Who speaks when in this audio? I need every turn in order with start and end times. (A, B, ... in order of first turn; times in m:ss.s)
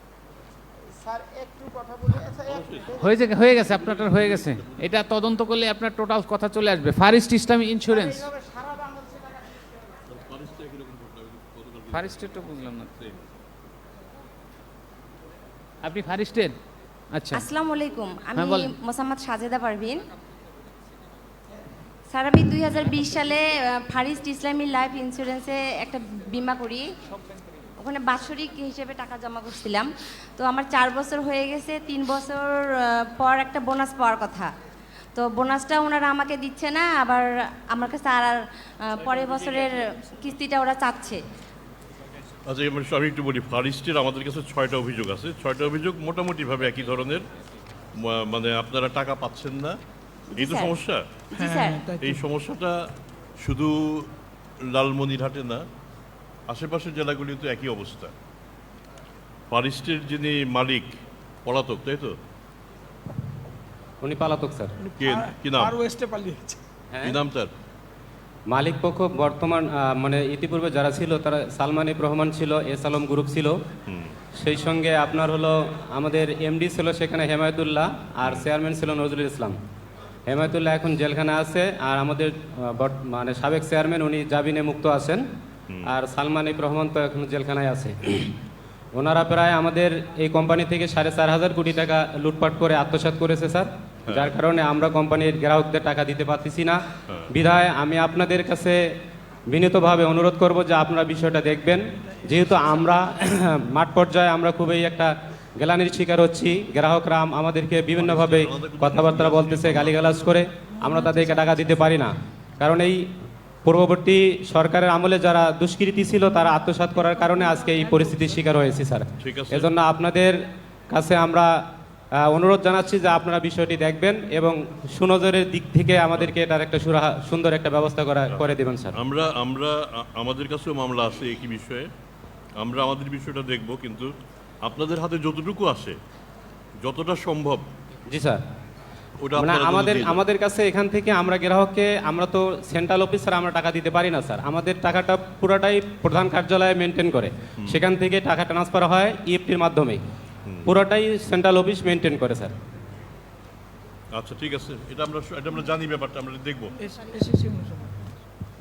0:01.0-0:03.6 A
0:02.4-0:05.0 B
0:03.0-0:08.3 C
0:07.9-0:09.6 A
0:10.1-0:13.2 B
0:11.9-0:12.9 C
0:15.8-0:16.5 C
0:17.1-0:17.4 C
0:17.3-0:20.1 D
0:18.4-0:18.7 C
0:22.1-0:26.9 D
0:27.8-0:34.5 D
0:35.2-0:41.2 D
0:42.5-0:47.2 B
0:48.0-0:49.8 B
0:50.4-0:50.8 D
0:50.4-0:51.2 B
0:51.3-0:52.2 E
0:51.3-0:51.9 D
0:52.0-0:52.8 B
0:53.4-0:54.1 B
0:54.7-0:55.6 B
0:56.5-0:58.1 B
0:59.5-1:00.9 B
1:01.4-1:02.1 B
1:04.0-1:04.7 F
1:04.8-1:06.6 E
1:05.0-1:05.8 B
1:07.0-1:07.5 B
1:08.5-1:13.6 F
1:13.9-1:14.1 B
1:14.4-1:19.6 F
1:20.3-1:25.2 F
1:25.8-1:28.3 F
1:29.0-1:38.8 F
1:34.1-1:34.4 B
1:39.5-1:53.0 F
1:48.0-1:50.3 B
1:51.0-1:51.3 E
1:53.6-2:01.5 F
1:57.2-1:58.2 E
1:59.2-1:59.7 B
2:02.3-2:09.0 F
2:08.3-2:11.9 B
2:12.6-2:16.0 B
2:16.8-2:17.6 B
2:18.1-2:18.4 F
2:19.2-2:20.2 B
2:19.4-2:30.0 F
2:30.6-2:32.5 F
2:34.1-2:36.7 B
2:36.8-2:38.0 E